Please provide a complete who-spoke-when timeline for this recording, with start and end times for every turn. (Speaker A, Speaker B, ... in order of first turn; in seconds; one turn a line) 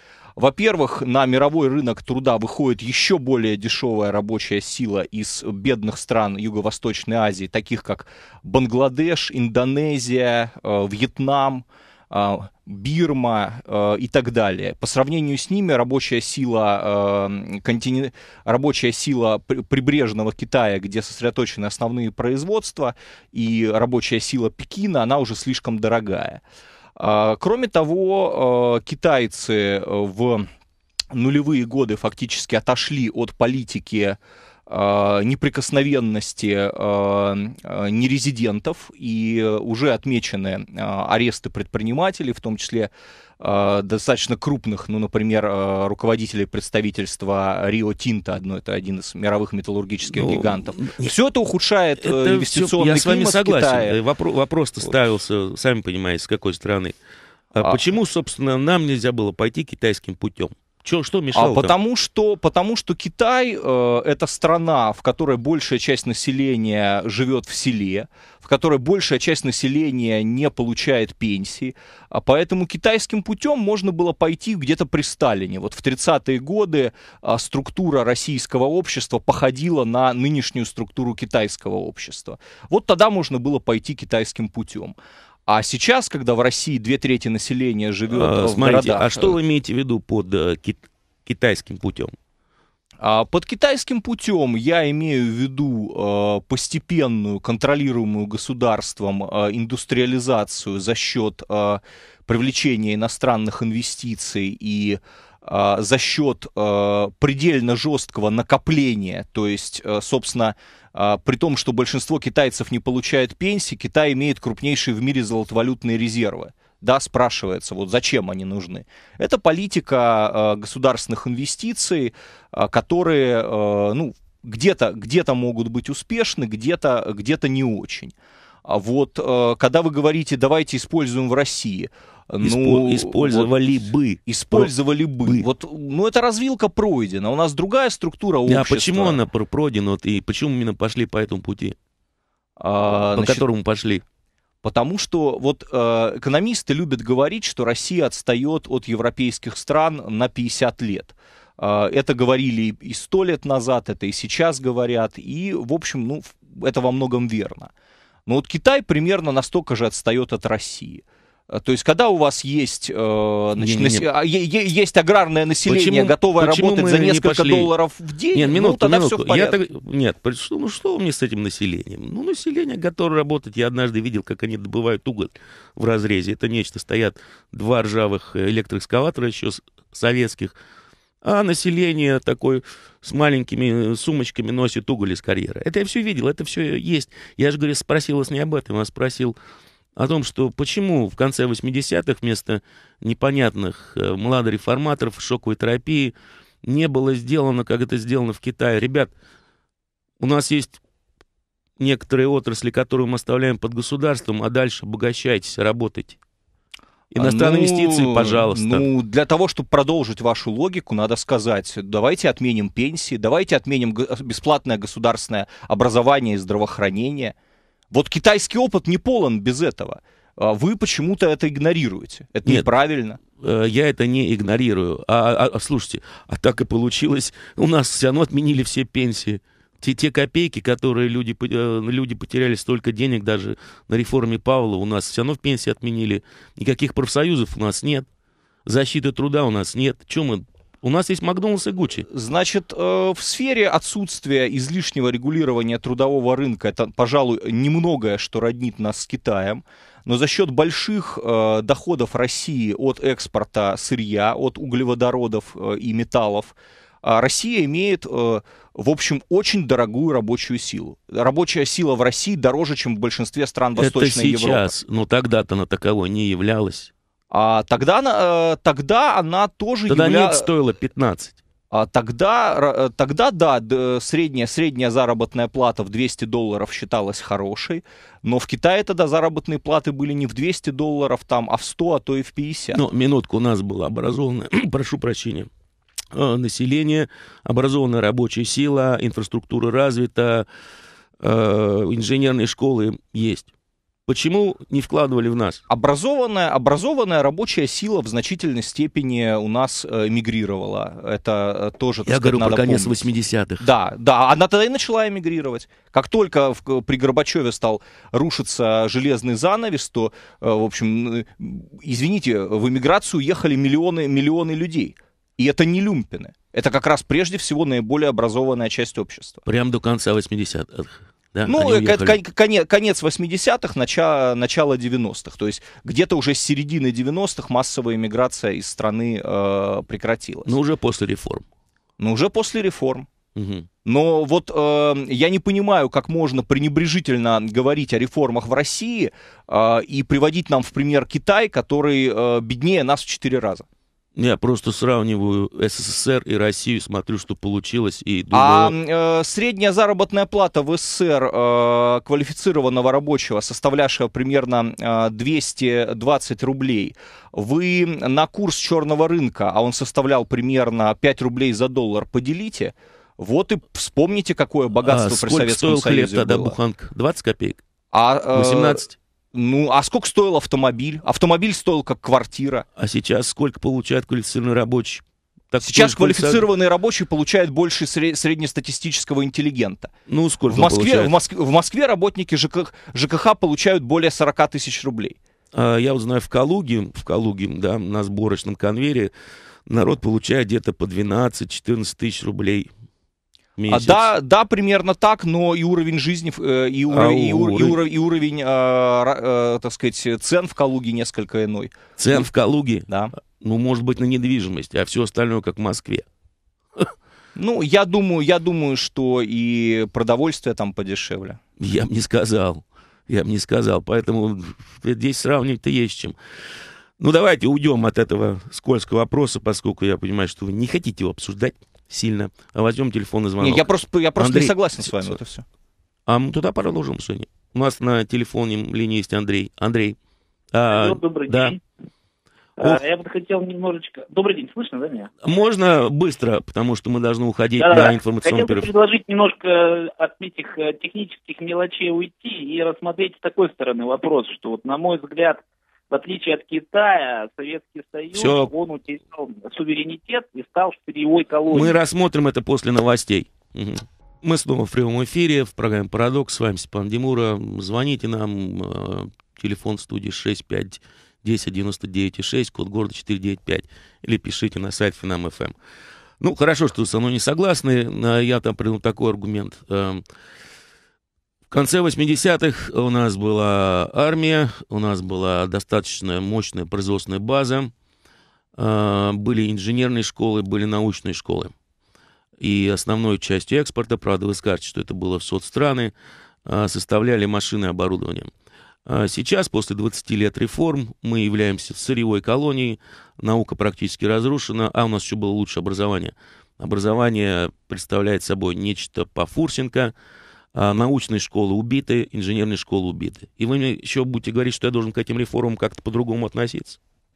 Speaker A: 0.4-26.4
Speaker A: 27.0-30.5
Speaker A: 31.1-54.0
Speaker B: 50.1-51.1
Speaker B: 52.0-57.0
Speaker A: 57.5-57.8
Speaker B: 57.5-61.7
Speaker A: 61.3-89.4
Speaker B: 88.1-92.2
Speaker A: 93.0-128.1
Speaker A: 128.7-139.2
Speaker B: 132.4-134.7
Speaker B: 138.5-141.8
Speaker A: 142.6-143.4
Speaker B: 143.1-144.0
Speaker A: 144.6-157.7
Speaker A: 158.3-169.6
Speaker B: 163.6-164.1
Speaker B: 165.7-167.7
Speaker B: 168.3-180.6
Speaker B: 181.2-189.3
Speaker B: 190.0-199.1
Speaker B: 200.2-200.8
Speaker B: 201.8-206.2
Speaker B: 207.1-208.9
Speaker A: 207.2-217.3
Speaker A: 217.9-223.2
Speaker B: 223.4-238.1
Speaker B: 238.7-242.1
Speaker A: 242.1-264.7
Speaker B: 263.8-266.9
Speaker A: 267.3-270.5
Speaker B: 269.9-271.4
Speaker A: 271.7-282.8
Speaker B: 282.7-285.5
Speaker B: 286.1-290.5
Speaker B: 291.2-293.5
Speaker B: 294.1-295.6
Speaker A: 295.7-303.0
Speaker B: 302.1-303.6
Speaker A: 303.6-319.4
Speaker B: 319.4-322.2
Speaker A: 321.5-330.6
Speaker B: 330.5-331.4
Speaker A: 332.0-333.1
Speaker B: 333.4-333.7
Speaker A: 333.9-343.7
Speaker B: 344.2-348.8
Speaker A: 348.3-366.6
Speaker B: 364.9-367.6
Speaker A: 367.9-372.7
Speaker B: 368.3-368.9
Speaker B: 372.8-376.5
Speaker A: 375.6-379.9
Speaker B: 380.1-381.2
Speaker A: 380.5-385.2
Speaker B: 385.5-389.1
Speaker B: 389.7-392.7
Speaker B: 393.6-394.1
Speaker A: 393.7-402.3
Speaker B: 396.9-397.8
Speaker B: 402.0-402.9
Speaker B: 403.4-406.1
Speaker A: 407.4-411.4
Speaker B: 411.6-416.2
Speaker B: 417.0-425.2
Speaker A: 423.4-425.4
Speaker B: 426.1-430.0
Speaker B: 430.5-431.6
Speaker C: 430.7-431.6
Speaker C: 432.6-435.1
Speaker B: 435.2-438.7
Speaker C: 437.6-451.8
Speaker B: 448.1-448.5
Speaker B: 451.5-465.6
Speaker B: 466.2-470.0
Speaker B: 471.5-477.7
Speaker B: 478.6-481.5
Speaker B: 482.4-485.9
Speaker B: 486.5-488.3
Speaker B: 488.9-499.9
Speaker B: 500.6-506.8